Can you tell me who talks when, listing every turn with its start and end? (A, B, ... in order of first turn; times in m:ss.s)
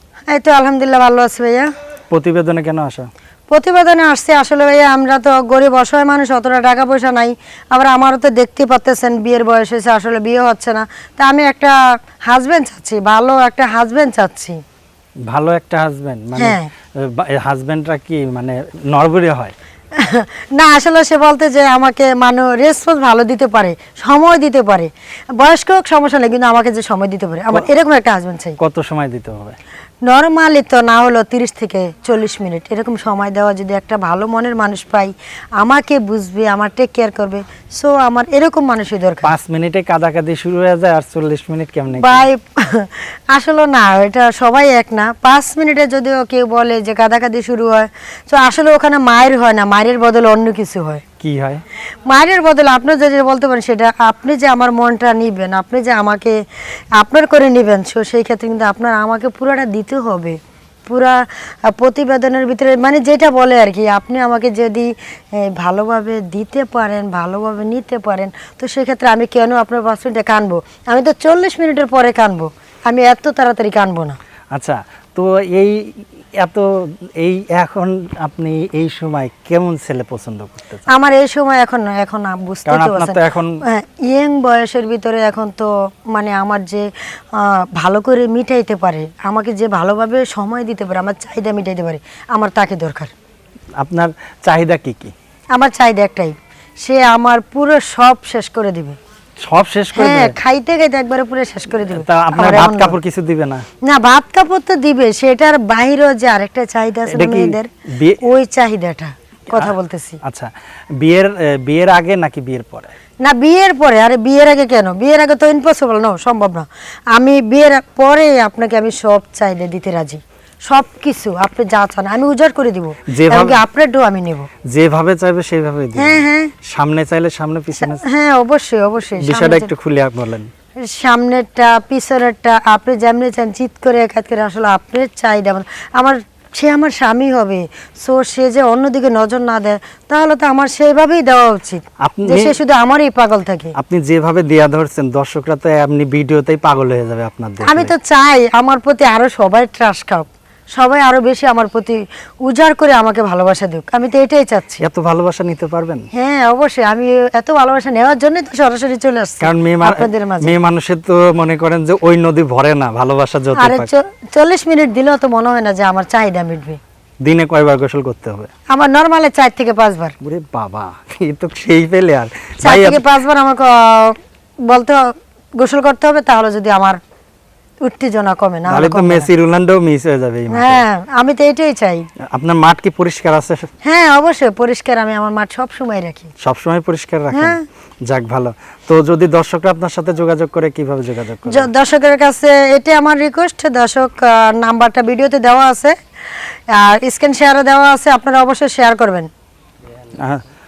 0:00.3-0:01.7 A
0:02.1-0:03.1 B
0:03.5-0:11.8 A
0:12.3-0:14.6 A
0:15.3-0:19.5 B
0:16.4-0:16.7 A
0:20.0-0:28.6 A
0:28.6-0:29.6 B
0:30.1-0:39.3 A
0:39.2-0:42.3 B
0:42.0-0:51.0 A
0:51.2-0:51.6 B
0:52.1-0:56.4 A
0:57.0-1:14.2 A
1:14.5-1:20.8 B
1:20.9-1:33.1 A
1:22.7-1:23.6 B
1:33.8-1:35.1 B
1:35.6-1:39.0 A
1:39.4-1:40.3 B
1:39.9-1:43.0 A
1:41.9-1:43.6 B
1:43.8-1:47.7 A
1:47.1-1:48.2 B
1:48.2-1:50.2 A
1:50.2-1:50.5 B
1:51.0-1:52.9 B
1:53.2-2:04.5 A
2:03.1-2:03.6 B
2:04.7-2:08.0 B
2:06.0-2:06.5 A
2:07.8-2:09.7 A
2:09.2-2:10.5 B
2:10.9-2:23.7 A
2:22.0-2:22.6 B
2:23.8-2:27.9 B
2:27.6-2:34.8 A
2:34.8-2:36.1 B
2:36.2-2:40.5 A
2:39.4-2:43.9 B
2:43.6-2:46.8 A
2:47.2-2:48.5 B
2:48.7-2:50.2 A
2:50.2-2:53.0 B
2:52.6-2:54.2 A
2:54.7-2:55.0 A
2:55.6-2:57.0 A
2:57.8-2:59.3 A
2:58.7-3:00.8 B
3:00.5-3:02.1 A
3:02.3-3:03.7 B
3:03.8-3:06.3 A
3:06.4-3:11.7 B
3:07.3-3:07.6 A
3:11.5-3:16.0 A
3:16.8-3:19.3 A